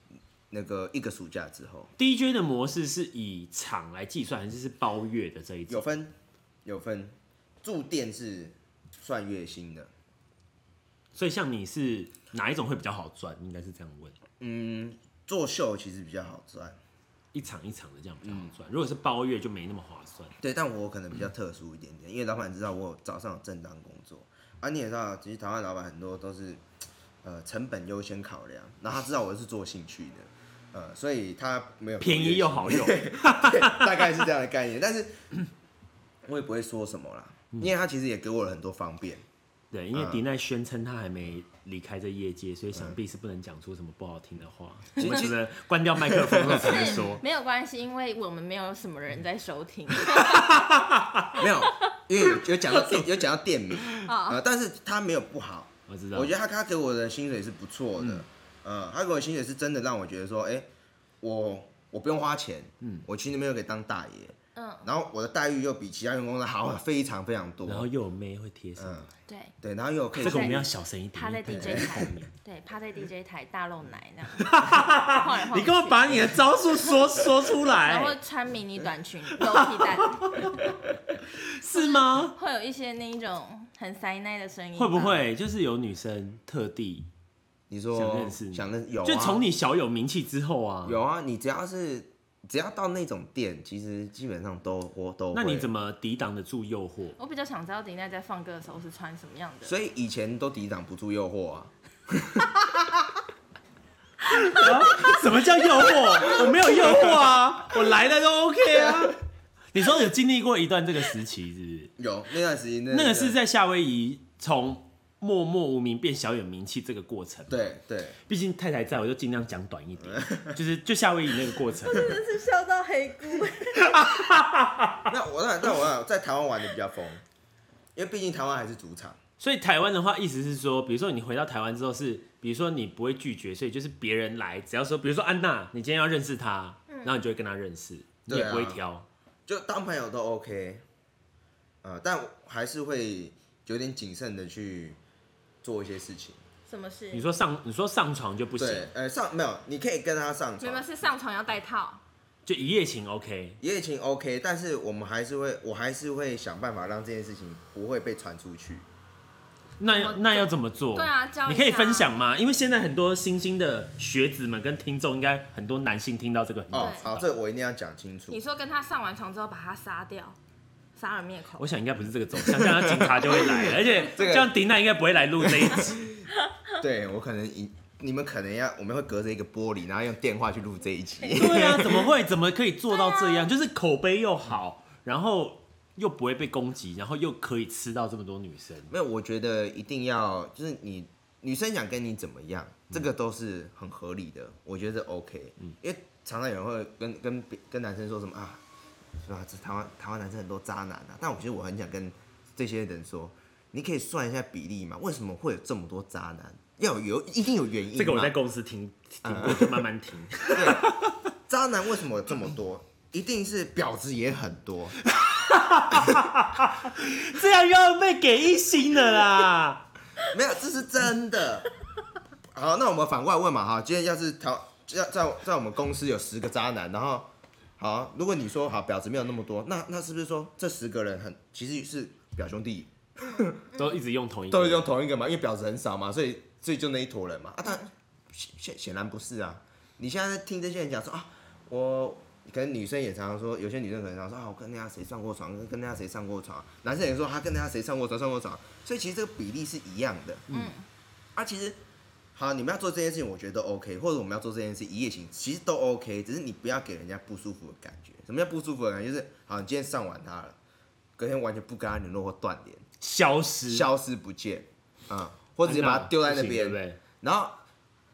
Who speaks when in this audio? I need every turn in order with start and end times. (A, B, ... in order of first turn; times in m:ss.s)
0:00.5-0:01.9 A
0:02.0-0:05.8 B
0:05.7-0:09.9 A
0:11.1-0:14.2 B
0:14.4-0:16.8 A
0:17.3-0:20.3 B
0:18.2-0:18.5 A
0:20.4-0:26.6 A
0:27.2-0:35.3 A
0:32.0-0:34.1 B
0:36.2-0:39.2 A
0:39.7-0:47.2 B
0:39.9-0:40.2 A
0:45.0-0:45.4 A
0:45.0-0:45.3 C
0:46.0-0:47.0 A
0:46.5-0:50.8 C
0:50.2-0:51.4 B
0:51.3-1:00.7 A
0:51.4-0:53.0 C
0:53.9-0:54.4 C
0:55.9-0:56.3 B
0:58.0-0:58.2 B
1:01.2-1:07.9 A
1:04.5-1:04.9 C
1:07.7-1:09.1 B
1:08.8-1:09.1 A
1:09.3-1:09.5 C
1:09.6-1:10.7 A
1:10.2-1:12.3 B
1:10.2-1:10.6 C
1:11.1-1:17.0 C
1:11.5-1:12.0 A
1:14.4-1:18.2 B
1:17.6-1:20.7 C
1:19.3-1:22.3 B
1:21.6-1:25.2 C
1:24.8-1:27.1 B
1:27.7-1:29.5 A
1:27.9-1:31.0 B
1:30.8-1:35.7 A
1:35.3-1:37.2 B
1:37.2-1:39.8 C
1:39.6-1:42.6 A
1:44.3-1:49.2 B
1:48.7-1:49.1 A
1:49.7-1:51.9 B
1:52.0-1:53.4 A
1:52.9-1:57.7 B
1:57.5-1:58.2 A
1:58.3-2:02.1 B
2:00.0-2:00.6 A
2:01.8-2:04.3 C
2:03.8-2:05.1 B
2:05.1-2:07.2 A
2:07.9-2:09.2 A
2:09.4-2:19.1 B
2:16.9-2:17.2 C
2:18.3-2:18.8 A
2:19.5-2:20.8 A
2:21.8-2:25.0 A
2:25.6-2:26.4 A
2:26.7-2:27.2 C
2:27.1-2:28.9 B
2:28.6-2:30.9 A
2:30.6-2:32.0 C
2:32.4-2:33.6 B
2:33.6-2:38.9 A
2:39.8-2:47.2 B
2:39.9-2:42.1 C
2:46.7-2:48.4 A
2:46.7-2:47.2 C
2:48.3-2:50.4 C
2:51.0-2:51.8 C
2:51.6-2:56.0 B
2:52.4-2:54.5 A
2:55.4-2:56.3 A
2:56.5-2:56.8 C
2:56.8-3:02.1 A
3:01.2-3:01.7 C
3:01.3-3:08.9 B
3:02.9-3:03.5 C
3:08.9-3:18.6 A
3:19.2-3:28.4 A
3:27.9-3:31.2 B
3:29.2-3:29.9 A
3:30.5-3:35.0 A
3:35.1-3:39.8 B
3:35.9-3:36.4 A
3:40.2-3:41.7 A
3:42.5-3:53.7 A
3:53.7-3:54.9 B
3:54.5-4:10.5 A
4:10.5-4:10.8 C
4:11.4-4:11.8 A
4:12.3-4:20.6 A
4:21.2-4:22.8 A
4:23.0-4:23.9 B
4:23.7-4:27.6 A
4:25.6-4:27.0 B